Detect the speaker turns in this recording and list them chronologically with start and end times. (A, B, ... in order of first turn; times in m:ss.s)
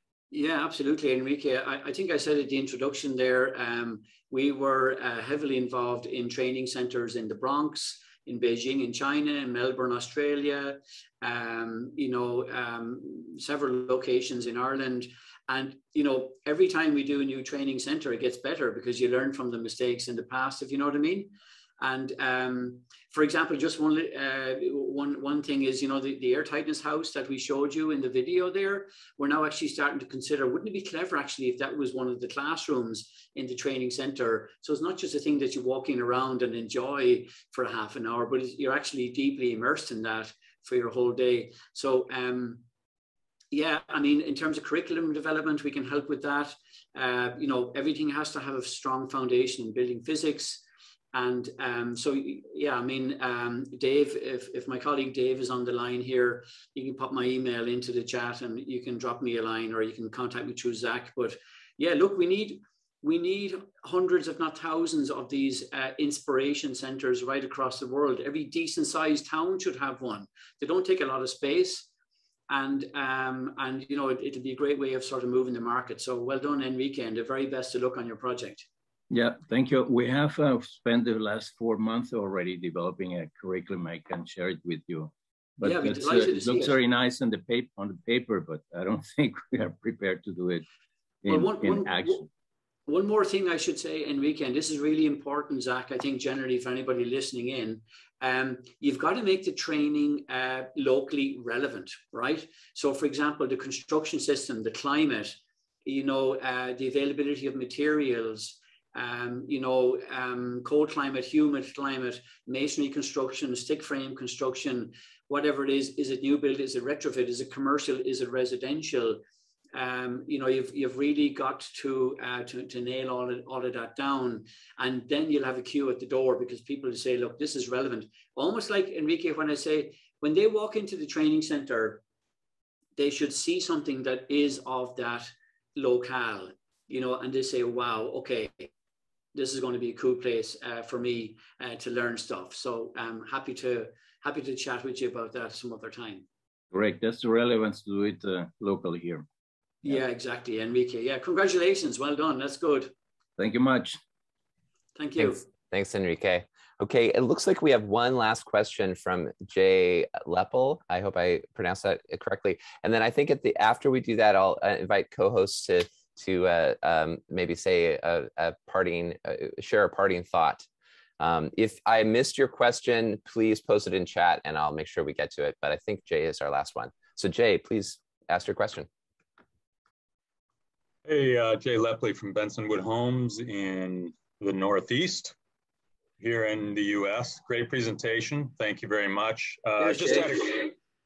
0:00.3-0:42.6 A
0:43.5-1:11.9 A
1:12.5-1:18.7 A
1:19.1-1:30.6 B
1:25.6-1:26.7 A
1:31.2-1:32.3 B
1:31.3-1:32.2 A
1:32.9-1:59.2 A
1:59.7-2:12.0 A
2:13.0-2:18.7 A
2:19.3-2:26.2 A
2:26.7-2:29.3 B
2:29.8-2:32.9 A
2:33.4-2:34.0 B
2:35.0-2:35.4 A
2:35.2-2:50.6 C
2:51.2-2:58.9 C
3:01.0-3:05.3 D
3:06.2-3:10.7 D
3:09.8-3:10.7 A